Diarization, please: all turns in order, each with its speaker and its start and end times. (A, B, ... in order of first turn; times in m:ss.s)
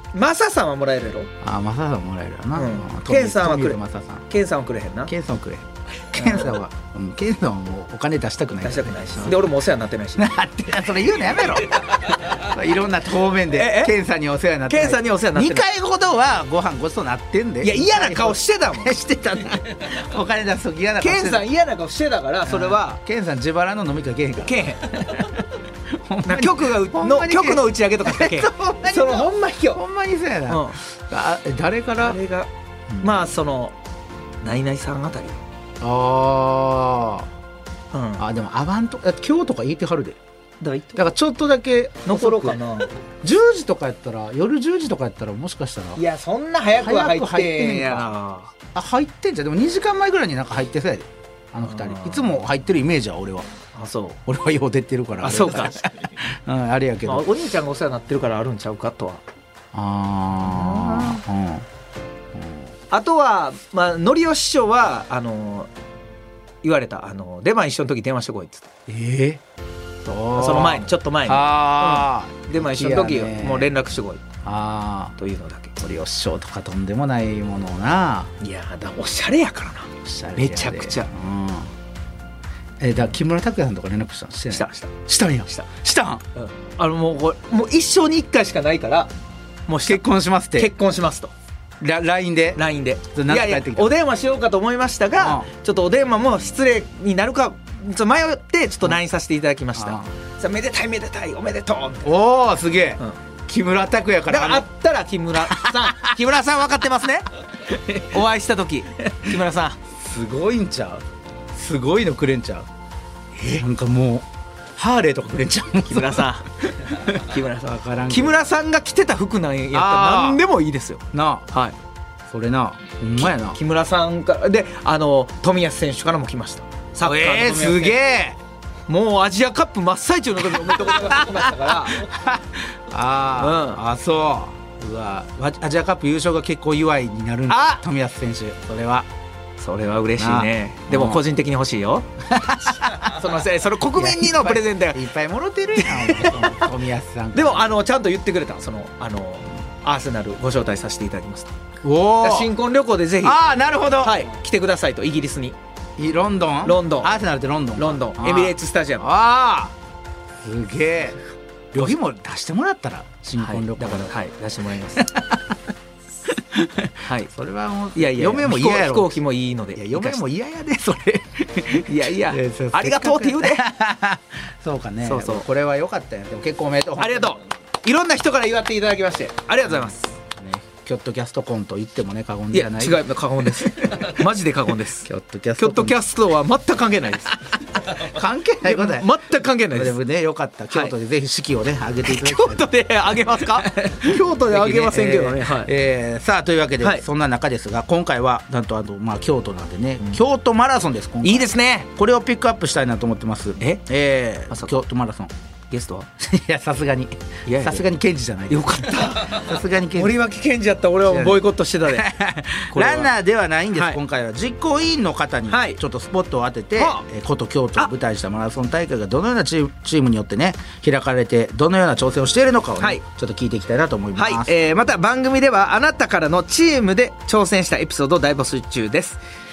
0:00.1-0:01.3 A
0:01.4-0:04.2 B
0:02.6-0:05.1 A
0:05.1-0:09.3 B
0:06.1-0:06.5 A
0:08.6-0:10.3 A
0:10.2-0:21.4 B
0:12.1-0:12.3 A
0:13.5-0:13.9 A
0:14.7-0:15.7 A
0:17.6-0:18.9 A
0:21.0-0:23.0 A
0:22.4-0:25.3 B
0:24.4-0:25.2 A
0:25.9-0:32.2 B
0:26.2-0:29.8 A
0:30.5-0:30.8 A
0:32.0-0:32.5 A
0:32.9-0:33.2 B
0:33.0-0:33.8 A
0:34.4-0:35.4 A
0:35.8-0:37.3 B
0:37.9-0:38.2 A
0:38.2-0:40.2 B
0:40.6-0:41.0 A
0:40.9-0:42.6 B
0:42.0-0:42.9 A
0:43.2-0:46.0 B
0:46.0-0:48.5 A
0:46.8-0:48.1 B
0:48.7-0:53.5 B
0:51.7-0:52.4 A
0:53.7-0:54.2 A
0:54.2-0:57.3 B
0:55.2-0:55.8 A
0:57.0-0:59.2 A
0:59.7-1:01.6 B
1:00.5-1:01.2 A
1:02.9-1:05.7 A
1:06.6-1:08.7 A
1:08.9-1:09.4 B
1:10.0-1:13.7 B
1:10.4-1:14.2 A
1:14.4-1:15.1 B
1:15.2-1:15.8 A
1:15.8-1:18.3 B
1:18.4-1:21.1 A
1:20.0-1:21.7 B
1:22.8-1:26.2 B
1:24.5-1:24.9 A
1:26.3-1:29.1 A
1:29.7-1:31.3 A
1:29.8-1:30.7 B
1:31.8-1:32.6 B
1:32.6-1:42.1 A
1:33.1-1:33.9 B
1:35.2-1:35.5 B
1:39.7-1:40.1 B
1:42.0-1:44.6 B
1:44.3-1:49.8 A
1:45.4-1:46.1 B
1:50.0-1:51.0 B
1:51.5-1:52.6 B
1:53.5-1:54.2 B
1:54.8-1:56.3 B
1:55.9-1:56.4 A
1:57.0-2:01.7 A
1:57.0-1:58.4 B
1:59.7-2:00.4 B
2:01.1-2:01.5 B
2:02.3-2:03.6 B
2:03.2-2:08.0 A
2:07.0-2:08.4 B
2:08.9-2:12.0 A
2:10.8-2:11.4 B
2:12.0-2:19.1 B
2:13.4-2:13.8 A
2:17.5-2:17.8 A
2:19.6-2:22.1 A
2:20.2-2:21.2 B
2:22.3-2:23.2 B
2:22.7-2:25.0 A
2:23.9-2:27.7 B
2:25.8-2:26.7 A
2:27.3-2:31.5 A
2:31.8-2:32.5 B
2:32.2-2:33.4 A
2:33.2-2:34.2 B
2:34.0-2:35.6 A
2:36.0-2:39.7 B
2:36.6-2:37.1 A
2:37.8-2:39.0 A
2:40.4-2:41.2 B
2:41.7-2:44.1 B
2:43.4-2:45.1 A
2:46.4-2:49.1 B
2:47.0-2:47.3 A
2:47.9-2:50.2 A
2:49.8-2:57.3 B
2:51.8-2:53.6 A
2:55.0-2:55.4 A
2:57.0-3:00.1 A
3:00.4-3:03.0 B
3:02.5-3:07.4 A
3:05.1-3:06.0 B
3:07.9-3:09.1 B
3:08.6-3:10.0 A
3:09.7-3:12.7 B
3:12.0-3:15.7 A
3:13.2-3:25.3 B
3:21.2-3:21.9 A
3:25.7-3:26.1 A
3:26.2-3:30.2 B
3:27.4-3:27.8 A
3:28.5-3:32.1 A
3:31.0-3:44.5 B
3:32.7-3:33.1 A
3:35.5-3:35.8 A
3:36.8-3:37.0 A
3:44.2-3:49.2 A